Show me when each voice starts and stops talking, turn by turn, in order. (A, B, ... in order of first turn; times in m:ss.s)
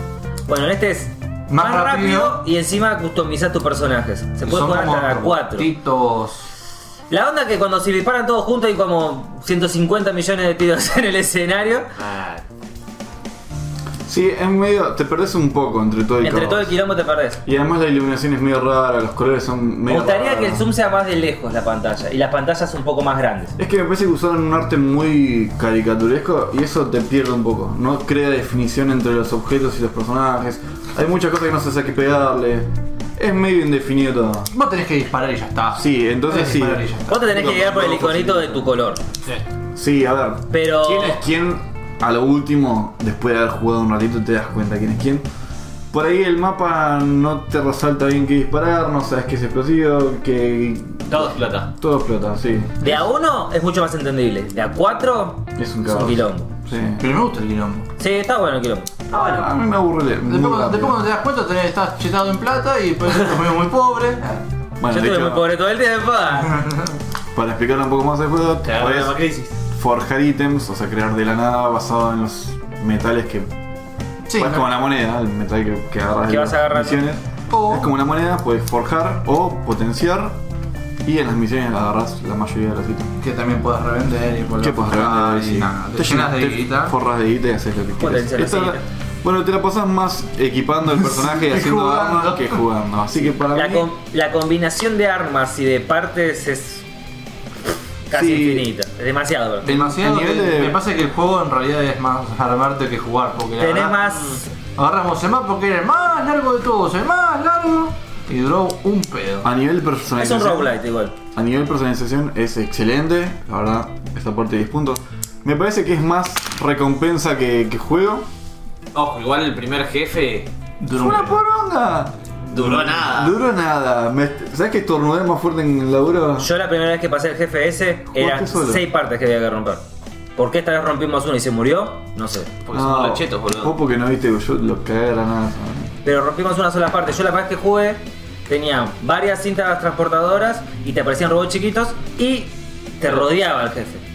0:00.5-0:05.7 A
0:01.5-0:02.4 B
0:04.4-0:06.5 B
0:07.1-0:11.9 A
0:12.0-0:12.4 C
0:14.0-0:16.8 D
0:16.2-0:17.4 A
0:17.4-0:20.6 D
0:19.9-0:23.6 A
0:23.6-0:34.5 D
0:34.5-0:37.2 B
0:35.7-0:38.7 D
0:37.1-0:39.0 A
0:39.7-0:45.2 D
0:40.5-0:41.2 A
0:45.9-0:53.0 D
0:51.1-0:51.7 C
0:52.8-0:56.5 A
0:55.6-0:57.0 D
0:57.0-0:57.9 B
0:58.0-0:59.4 A
0:59.1-1:01.0 D
1:00.2-1:04.4 B
1:04.8-1:05.5 D
1:04.9-1:06.6 A
1:07.3-1:09.2 D
1:08.6-1:09.5 C
1:09.7-1:13.5 D
1:14.3-1:14.7 B
1:14.3-1:20.4 D
1:16.2-1:17.0 A
1:17.5-1:17.9 B
1:21.0-1:23.2 D
1:23.2-1:26.9 B
1:24.6-1:33.9 D
1:28.0-1:28.8 A
1:31.0-1:32.6 B
1:33.5-1:36.8 A
1:38.1-1:39.7 A
1:38.1-1:38.7 D
1:39.6-1:44.0 B
1:39.6-1:40.8 D
1:43.6-1:44.4 A
1:44.8-1:49.5 B
1:49.4-1:50.7 D
1:50.2-1:51.1 A
1:51.3-1:58.3 D
1:58.9-2:00.5 C
2:00.8-2:01.4 B
2:00.9-2:06.5 D
2:02.5-2:03.4 C
2:06.4-2:09.8 A
2:08.1-2:08.8 D
2:10.4-2:12.5 A
2:12.6-2:13.7 C
2:12.7-2:15.9 D
2:16.0-2:24.0 A